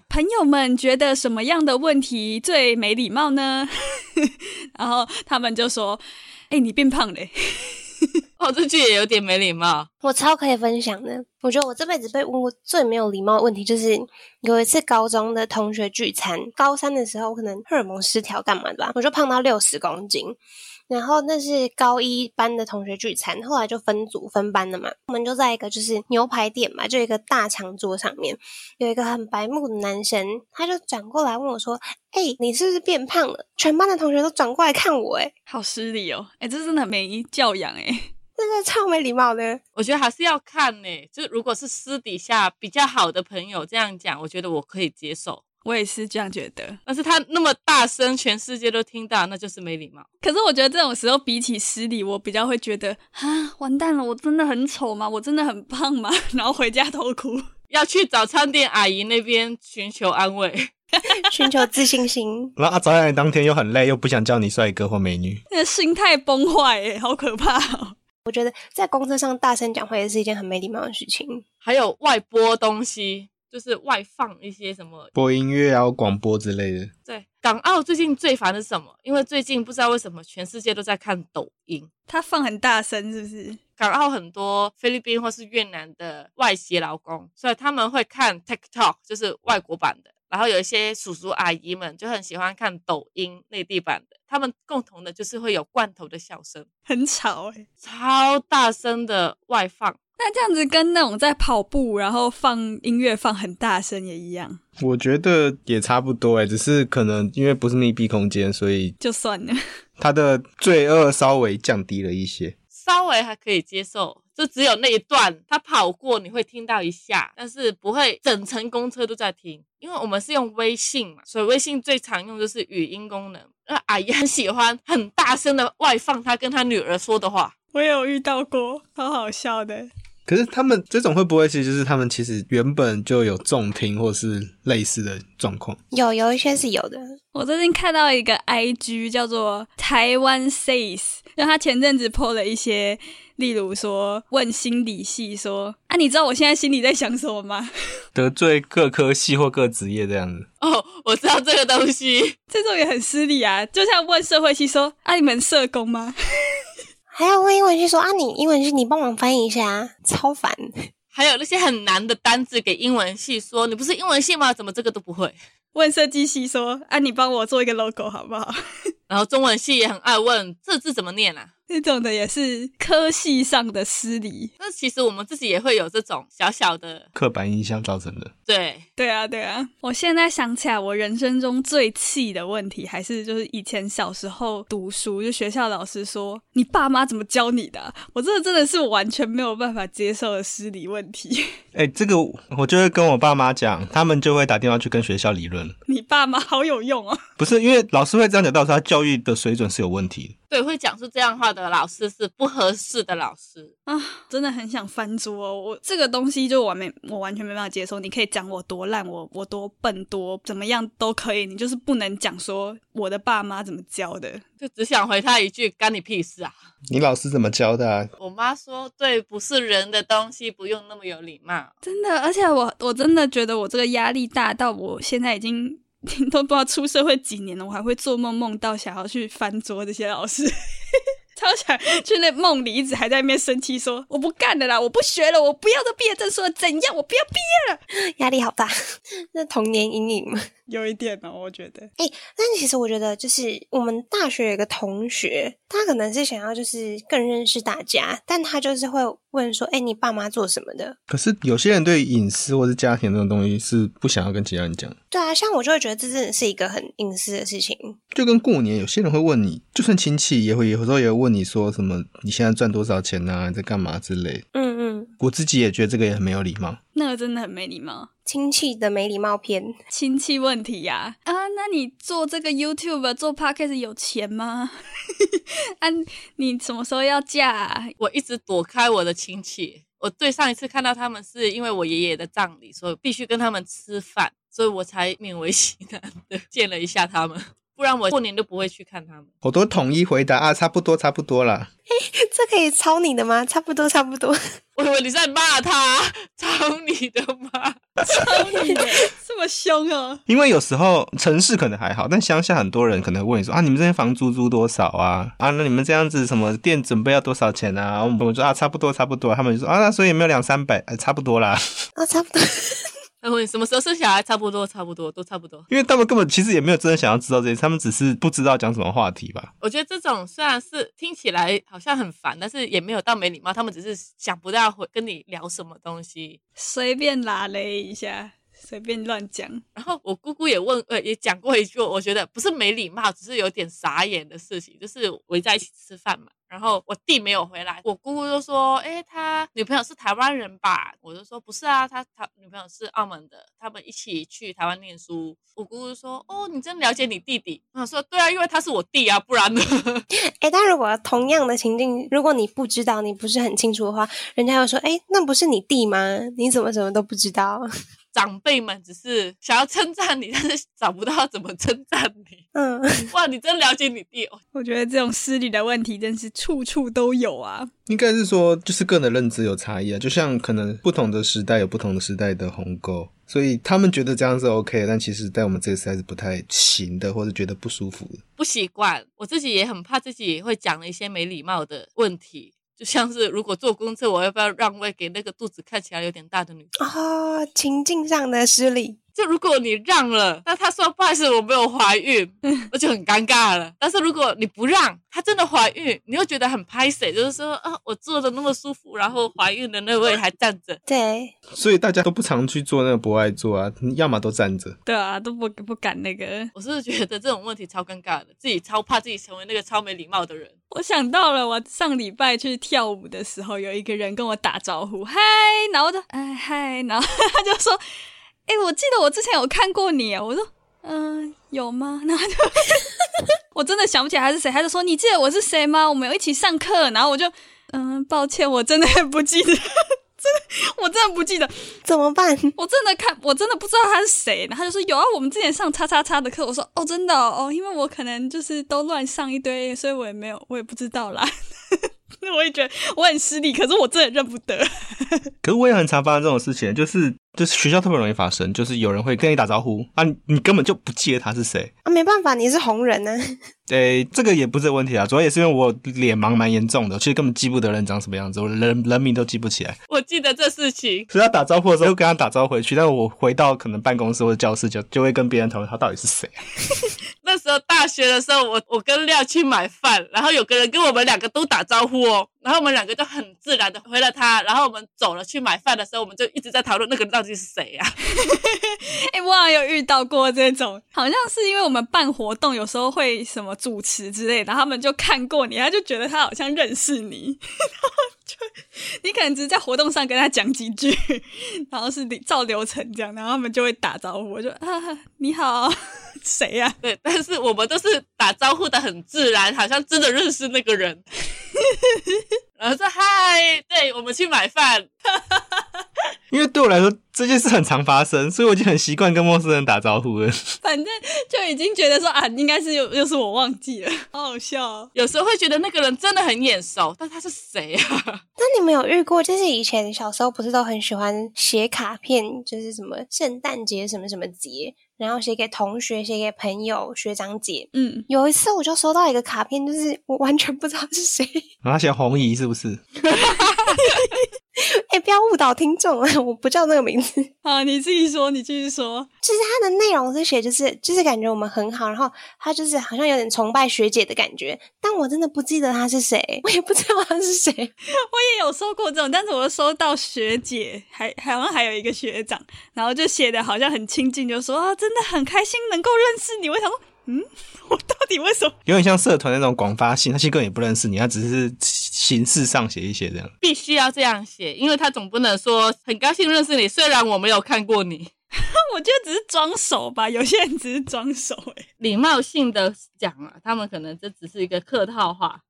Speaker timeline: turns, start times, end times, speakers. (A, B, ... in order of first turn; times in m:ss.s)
0:00.1-0:08.1 A
0:08.4-0:09.9 B
0:10.0-0:20.4 C
0:20.9-0:35.3 C
0:35.5-0:38.1 A
0:38.4-0:39.6 C
0:39.8-0:45.4 B
0:45.6-0:46.8 A
0:46.9-0:50.1 B
0:50.2-0:57.5 A
0:57.7-1:00.7 B
1:01.0-1:01.2 A
1:01.2-1:02.6 C
1:02.6-1:05.4 D
1:05.5-1:08.0 A
1:08.2-1:11.4 C
1:11.6-1:15.1 B
1:15.1-1:16.9 D
1:17.1-1:21.9 B
1:22.1-1:23.6 A
1:23.8-1:36.7 B
1:36.9-1:37.6 A
1:37.8-1:40.0 B
1:40.2-1:44.6 A
1:44.8-1:49.0 D
1:49.0-1:49.6 A
1:50.0-1:52.6 D
1:52.8-2:07.5 B
2:07.7-2:09.9 A
2:10.2-2:15.8 D
2:15.9-2:17.0 C
2:17.3-2:27.7 A
2:28.1-2:30.5 D
2:30.6-2:32.4 B
2:32.5-2:36.1 A
2:37.1-2:40.9 C
2:41.1-2:45.4 B
2:45.8-2:48.6 A
2:49.1-2:51.5 B
2:51.7-2:54.5 A
2:54.6-2:57.0 B
2:57.1-2:58.3 D
2:58.5-2:58.8 B
2:59.0-3:11.4 A
3:11.7-3:15.8 D
3:15.9-3:17.2 A
3:17.4-3:20.3 D
3:20.5-3:23.7 B
3:23.9-3:34.4 A
3:34.6-3:36.5 B
3:36.9-3:38.1 D
3:38.2-3:41.7 B
3:41.8-3:57.8 A
3:58.1-3:58.7 C
3:59.3-4:00.5 C
4:00.7-4:01.9 A
4:02.0-4:11.0 C
4:11.1-4:15.0 D
4:15.1-4:18.0 C
4:18.1-4:24.4 D
4:24.5-4:25.1 C
4:25.2-4:26.8 D
4:27.0-4:28.1 A
4:28.2-4:29.7 C
4:29.9-4:37.9 A
4:38.0-4:49.3 B
4:49.4-4:51.7 D
4:51.9-4:54.4 C
4:54.8-4:57.8 B
4:58.0-5:00.2 A
5:00.3-5:11.6 D
5:12.0-5:12.9 C
5:13.2-5:15.6 B
5:15.7-5:19.5 D
5:19.6-5:26.4 B
5:26.6-5:29.6 A
5:29.8-5:50.1 B
5:50.4-5:57.7 C
5:58.1-6:02.4 B
6:02.6-6:03.1 C
6:03.1-6:04.4 B
6:04.5-6:07.7 A
6:07.9-6:18.2 D
6:18.4-6:26.7 B
6:26.8-6:29.0 C
6:29.2-6:40.8 B
6:40.9-6:41.3 C
6:41.5-6:44.8 D
6:44.9-6:46.5 A
6:46.5-6:50.5 B
6:50.7-6:57.8 A
6:58.5-7:02.9 A
7:03.5-7:11.5 A
7:11.8-7:12.6 C
7:12.6-7:25.3 A
7:25.4-7:31.7 D
7:31.8-7:33.4 C
7:33.7-7:39.8 D
7:39.9-7:41.1 B
7:41.1-7:46.4 D
7:47.2-7:58.0 B
7:58.2-8:16.8 A
8:16.8-8:21.0 B
8:21.6-8:22.2 A
8:22.6-8:24.9 B
8:25.1-8:25.6 A
8:26.3-8:30.5 D
8:30.6-8:34.9 A
8:34.9-8:38.2 B
8:38.4-8:51.4 C
8:47.7-8:48.1 A
8:51.6-8:52.8 D
8:53.1-8:53.7 B
8:53.8-8:54.2 A
8:54.6-8:57.3 C
8:57.4-8:59.1 A
8:59.2-9:07.7 C
9:08.1-9:18.6 A
9:18.6-9:23.3 D
9:23.4-9:28.1 B
9:28.7-9:31.6 A
9:31.8-9:35.4 B